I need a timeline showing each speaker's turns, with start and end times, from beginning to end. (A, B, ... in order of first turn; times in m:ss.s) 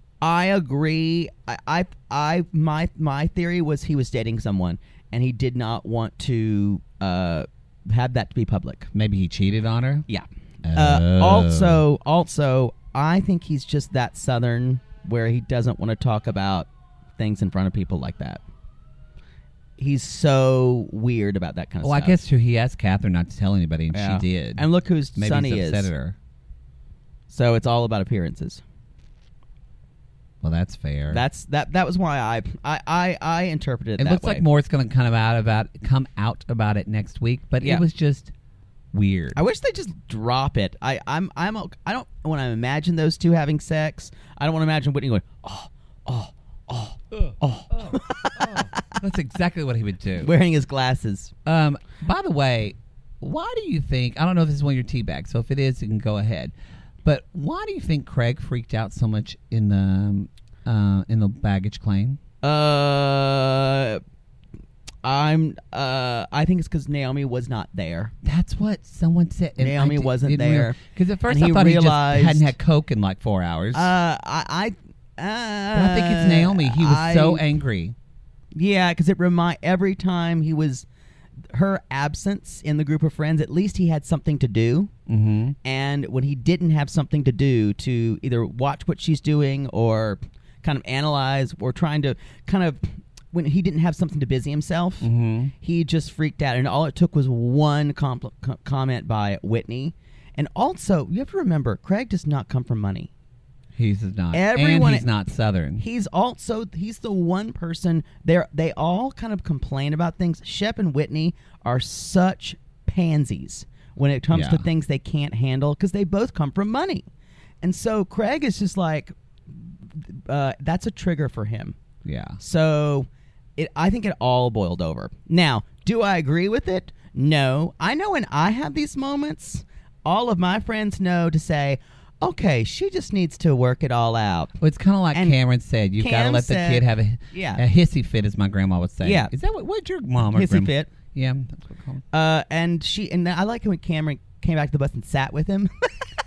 0:00.2-0:08.9 A
0:08.9-0:10.0 B
0:10.1-0:18.4 A
0:10.6-0:11.8 B
0:19.8-0:22.2 A
0:21.8-0:26.1 B
0:23.9-0:25.9 A
0:27.3-0:28.6 A
0:30.4-0:31.2 B
0:31.1-0:34.4 A
0:34.0-0:38.3 B
0:38.9-0:39.4 B
0:39.3-0:48.9 A
0:47.2-0:50.3 B
0:50.2-0:51.3 A
0:51.4-0:56.5 B
0:57.0-1:02.2 B
1:02.4-1:04.0 A
1:05.0-1:08.1 A
1:08.2-1:13.9 B
1:09.6-1:12.5 A
1:13.7-1:17.4 A
1:15.7-1:17.9 B
1:18.5-1:20.8 A
1:21.5-1:24.9 A
1:25.1-1:25.6 B
1:25.6-1:35.1 A
1:35.0-1:35.5 B
1:35.6-1:43.1 A
1:43.8-1:45.8 B
1:44.3-1:45.1 A
1:45.8-1:57.0 A
1:54.3-1:54.6 B
1:57.6-2:01.8 A
2:02.0-2:02.4 B
2:02.4-2:14.5 A
2:14.6-2:22.0 B
2:15.1-2:15.4 A
2:16.0-2:17.6 A
2:19.0-2:19.3 A
2:20.3-2:20.9 A
2:22.1-2:25.9 A